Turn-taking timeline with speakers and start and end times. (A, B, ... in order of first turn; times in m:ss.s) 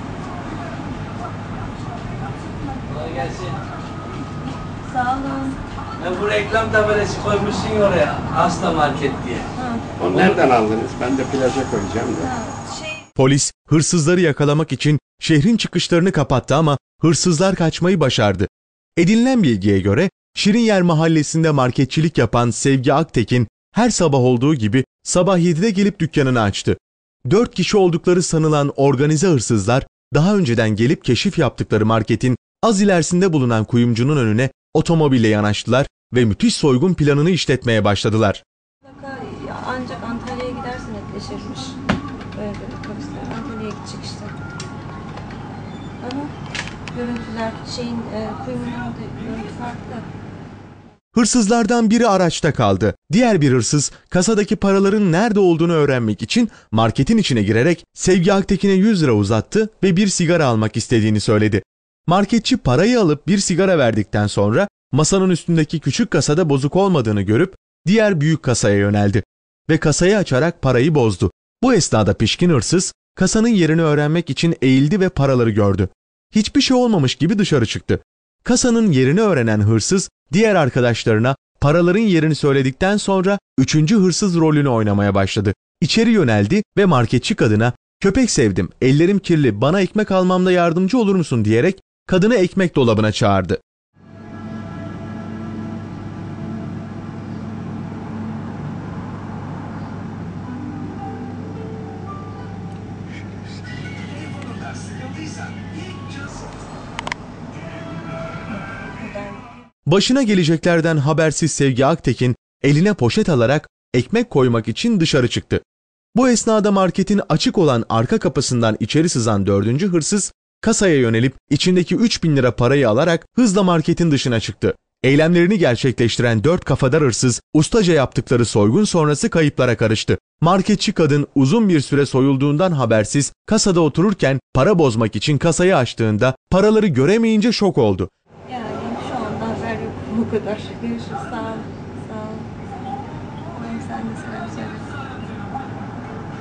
0:02.9-0:03.6 A
0:04.9-0:05.6 B
0:06.0-0:09.5 A
0:09.5-0:09.8 B
0:10.0-0:12.3 C
0:12.2-0:13.0 B
0:13.2-0:38.4 D
0:38.8-0:41.8 B
0:42.3-0:44.3 B
0:46.0-0:46.3 B
0:46.9-0:50.1 B
0:51.1-1:33.6 D
1:48.7-1:49.5 B
1:49.8-1:55.6 D
1:56.1-2:18.1 D
2:18.5-2:22.5 B
2:23.5-2:25.1 B